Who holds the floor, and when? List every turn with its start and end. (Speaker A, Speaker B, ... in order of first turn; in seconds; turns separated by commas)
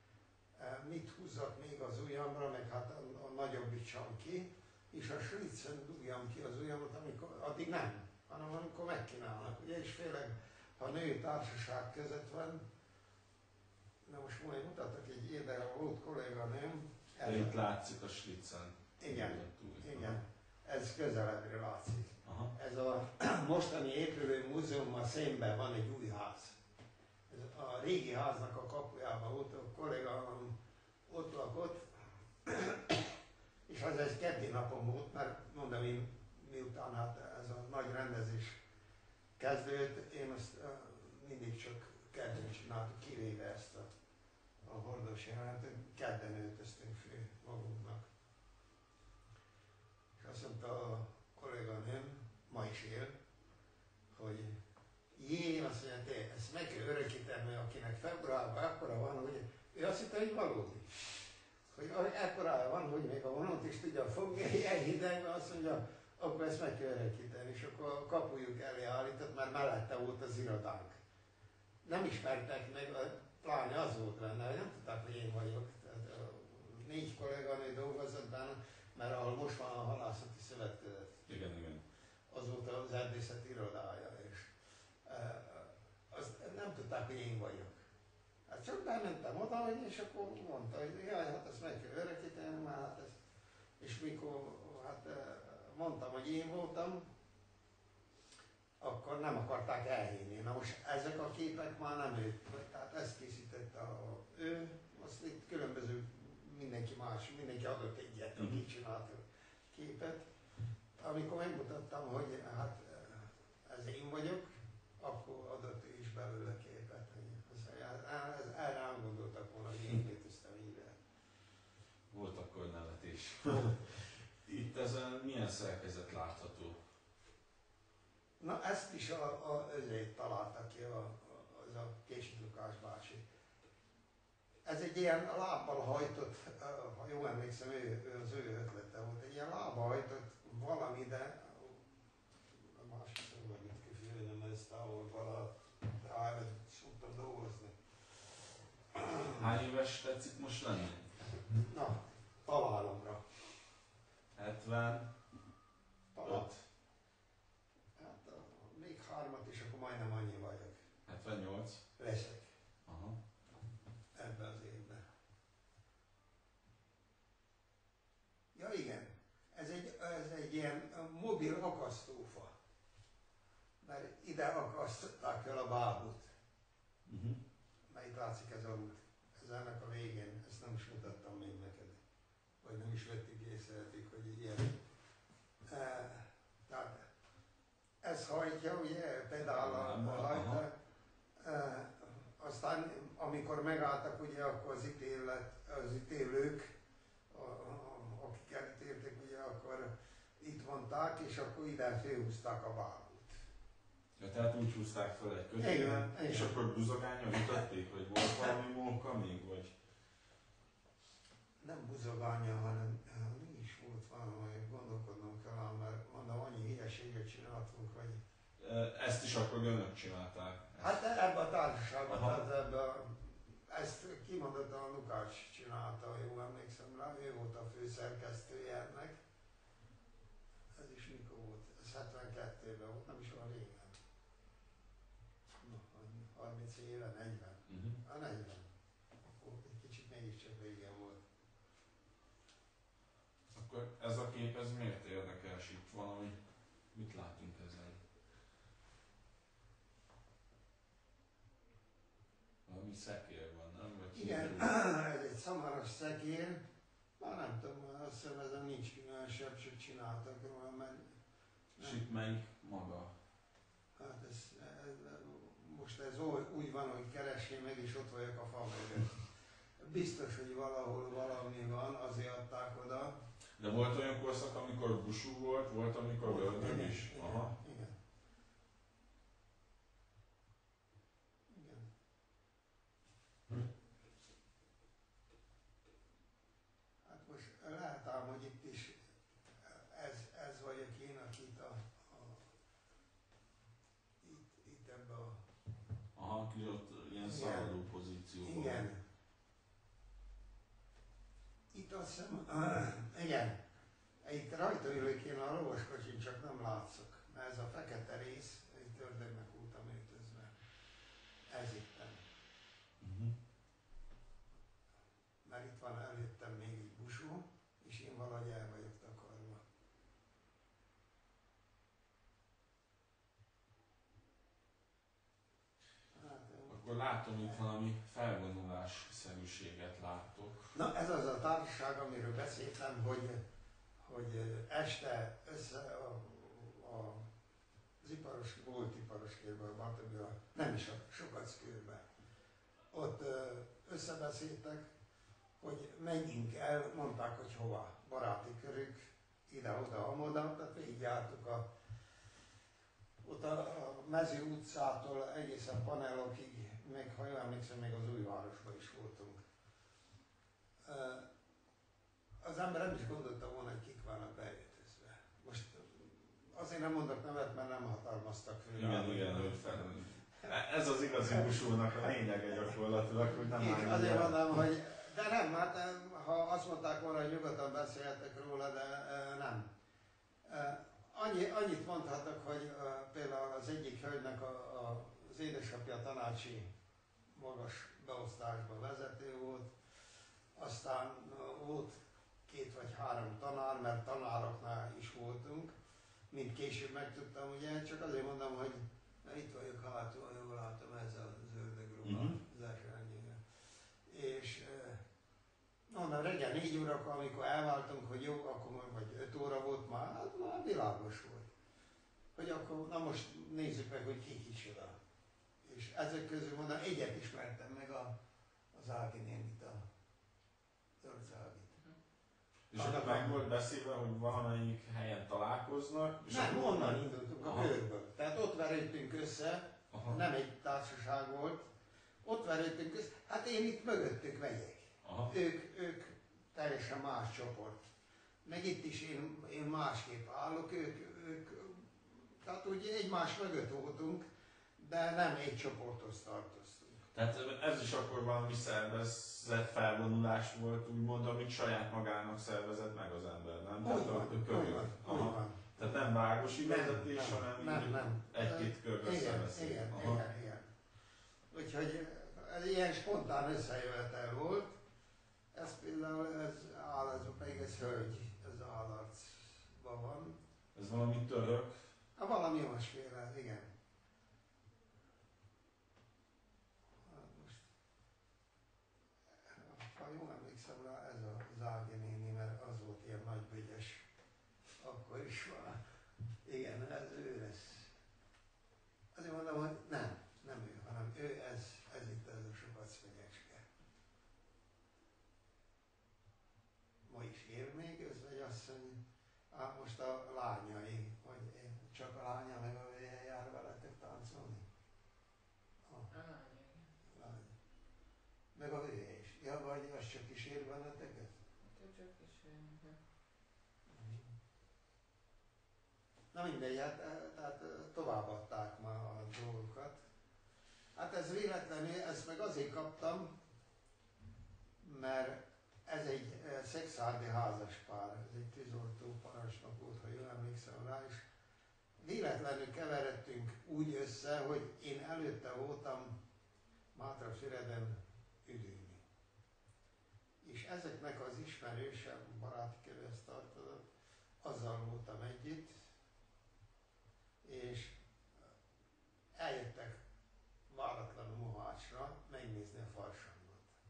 Speaker A: 0.6-12.6, Speaker A: 14.0-17.5, Speaker B: 17.2-20.2, Speaker A: 19.0-26.6, Speaker B: 22.2-22.5, Speaker A: 27.3-30.6, Speaker A: 31.1-33.1, Speaker A: 33.7-38.6, Speaker A: 39.4-43.9, Speaker A: 44.6-48.0, Speaker A: 50.2-53.2, Speaker A: 54.1-54.6, Speaker A: 55.1-61.0, Speaker A: 61.7-71.0, Speaker A: 71.8-81.3, Speaker B: 81.3-81.8, Speaker A: 82.3-84.5, Speaker A: 85.0-87.8, Speaker A: 88.5-93.1, Speaker A: 93.8-97.1, Speaker A: 98.8-110.3, Speaker B: 108.3-108.6, Speaker A: 111.0-121.0, Speaker B: 122.1-126.8, Speaker A: 128.4-133.2, Speaker A: 134.6-141.8, Speaker A: 142.5-147.8, Speaker A: 148.9-149.5, Speaker B: 149.4-151.1, Speaker A: 151.6-153.2, Speaker B: 154.3-155.1, Speaker A: 156.1-156.5, Speaker B: 156.2-156.6, Speaker A: 158.0-160.8, Speaker B: 161.1-161.8, Speaker A: 162.0-162.5, Speaker B: 162.8-163.2, Speaker A: 164.1-165.0, Speaker A: 168.5-172.5, Speaker A: 173.8-176.3, Speaker B: 177.1-177.4, Speaker A: 177.9-182.0, Speaker A: 182.6-184.8, Speaker A: 185.7-187.1, Speaker A: 188.0-190.7, Speaker B: 189.4-190.6, Speaker A: 191.4-196.7, Speaker A: 197.3-203.3, Speaker B: 204.2-209.7, Speaker A: 205.6-206.6, Speaker A: 211.6-218.2, Speaker B: 218.6-221.0, Speaker A: 220.8-229.2, Speaker B: 222.1-222.4, Speaker A: 230.8-234.0, Speaker A: 235.6-238.7, Speaker B: 237.7-238.0, Speaker A: 239.3-241.2, Speaker B: 243.5-246.4, Speaker B: 246.9-248.0, Speaker B: 252.7-254.7, Speaker A: 254.1-256.6, Speaker A: 257.2-261.1, Speaker A: 261.8-262.0, Speaker B: 261.8-263.1, Speaker A: 264.0-273.2, Speaker B: 273.6-277.5, Speaker A: 276.2-277.9, Speaker A: 281.5-281.9, Speaker A: 287.0-288.9, Speaker A: 289.6-292.5, Speaker A: 294.2-295.4, Speaker B: 296.1-298.8, Speaker A: 297.2-297.7, Speaker A: 298.4-299.0, Speaker A: 301.7-303.6, Speaker A: 304.2-310.5, Speaker A: 311.5-312.3, Speaker B: 313.0-313.3, Speaker A: 315.4-319.6, Speaker A: 326.1-326.8, Speaker B: 326.7-330.7, Speaker A: 330.7-333.4, Speaker A: 334.0-337.3, Speaker A: 338.0-342.0, Speaker A: 342.9-344.9, Speaker A: 345.6-351.7, Speaker A: 353.2-359.4, Speaker A: 360.8-361.3, Speaker A: 362.4-370.5, Speaker B: 368.7-374.6, Speaker A: 371.3-371.5, Speaker A: 373.3-379.7, Speaker A: 380.4-386.7, Speaker A: 387.3-389.7, Speaker A: 390.5-395.7, Speaker A: 396.3-403.4, Speaker B: 402.0-402.4, Speaker A: 404.1-405.0, Speaker A: 405.9-411.5, Speaker A: 412.4-415.0, Speaker A: 415.6-418.1, Speaker A: 418.7-419.8, Speaker A: 421.0-421.8, Speaker B: 422.7-427.7, Speaker A: 422.7-423.4, Speaker A: 426.3-431.7, Speaker B: 429.9-430.2, Speaker A: 432.2-437.8, Speaker B: 435.0-435.3, Speaker A: 438.4-447.0, Speaker B: 447.1-460.2, Speaker A: 453.8-455.8, Speaker A: 456.5-460.7, Speaker A: 461.5-464.8, Speaker A: 465.5-470.4, Speaker B: 470.7-471.7, Speaker A: 472.2-473.7, Speaker A: 477.0-477.6, Speaker A: 479.5-484.1, Speaker A: 484.8-485.8, Speaker A: 486.4-487.9, Speaker A: 489.1-493.6, Speaker A: 497.0-499.0, Speaker A: 499.5-504.7, Speaker C: 506.1-506.9, Speaker A: 507.1-507.5, Speaker A: 508.5-511.3, Speaker C: 511.6-513.0, Speaker A: 513.9-514.3, Speaker A: 516.3-520.0, Speaker A: 520.9-523.3, Speaker A: 524.8-531.2, Speaker A: 532.0-536.2, Speaker A: 536.9-539.0, Speaker A: 540.4-543.8, Speaker A: 544.4-545.8, Speaker A: 547.4-548.0, Speaker A: 549.4-550.0, Speaker A: 550.7-553.7